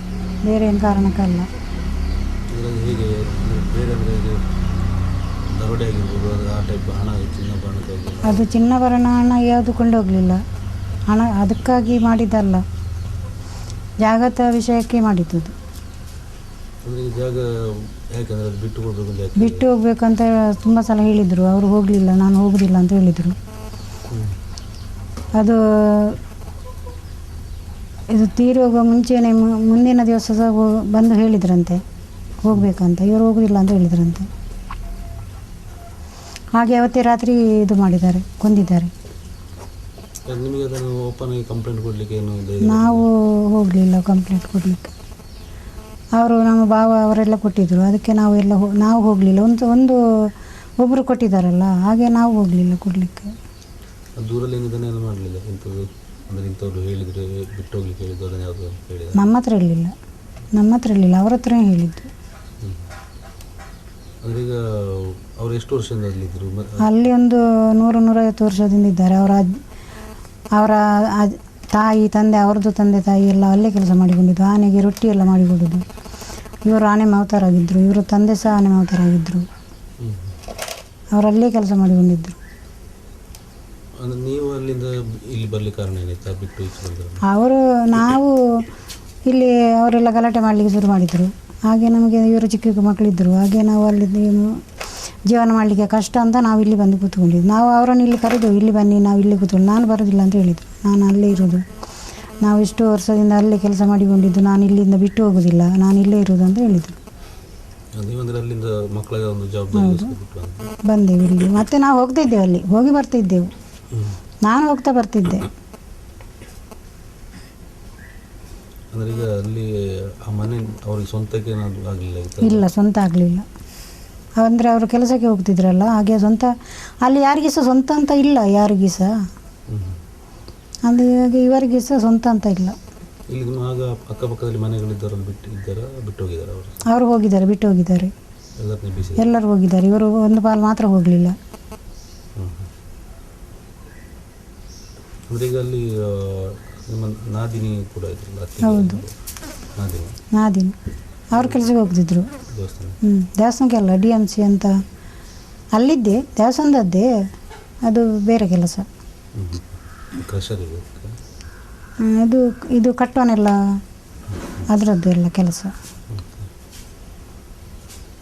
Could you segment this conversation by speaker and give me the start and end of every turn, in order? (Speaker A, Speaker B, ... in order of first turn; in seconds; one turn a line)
Speaker A: 0.4-1.5
Speaker B: 2.5-4.4
Speaker B: 5.5-8.5
Speaker A: 8.2-10.4
Speaker A: 11.1-12.6
Speaker A: 14.0-15.5
Speaker B: 16.8-19.7
Speaker A: 19.4-23.4
Speaker A: 25.4-26.2
Speaker A: 28.1-31.8
Speaker A: 32.4-34.3
Speaker A: 36.5-38.9
Speaker B: 40.2-43.1
Speaker A: 42.6-44.9
Speaker A: 46.1-50.0
Speaker A: 50.8-53.3
Speaker B: 54.2-59.3
Speaker A: 59.1-59.9
Speaker A: 60.5-62.1
Speaker B: 62.6-62.9
Speaker B: 64.2-66.9
Speaker A: 66.8-69.6
Speaker A: 70.5-75.8
Speaker A: 76.6-79.5
Speaker B: 80.0-80.3
Speaker A: 81.1-82.4
Speaker B: 84.0-87.2
Speaker A: 87.2-88.6
Speaker A: 89.3-94.6
Speaker A: 95.3-101.6
Speaker A: 102.4-107.0
Speaker B: 107.9-110.7
Speaker A: 109.7-110.1
Speaker A: 110.8-113.5
Speaker B: 113.9-114.2
Speaker A: 114.4-115.5
Speaker B: 118.9-122.7
Speaker A: 122.4-123.4
Speaker A: 124.4-129.3
Speaker B: 129.7-130.0
Speaker A: 130.8-132.8
Speaker B: 133.3-136.8
Speaker A: 136.8-138.1
Speaker B: 138.6-139.2
Speaker A: 139.2-141.3
Speaker B: 142.3-142.7
Speaker B: 145.3-149.1
Speaker A: 148.6-149.0
Speaker B: 149.7-150.2
Speaker A: 150.3-150.8
Speaker A: 151.3-152.3
Speaker B: 151.3-151.6
Speaker B: 152.5-153.0
Speaker A: 153.0-154.7
Speaker A: 155.7-157.1
Speaker A: 157.8-158.9
Speaker B: 159.3-161.1
Speaker A: 162.0-163.6
Speaker A: 164.7-165.7
Speaker B: 166.1-166.5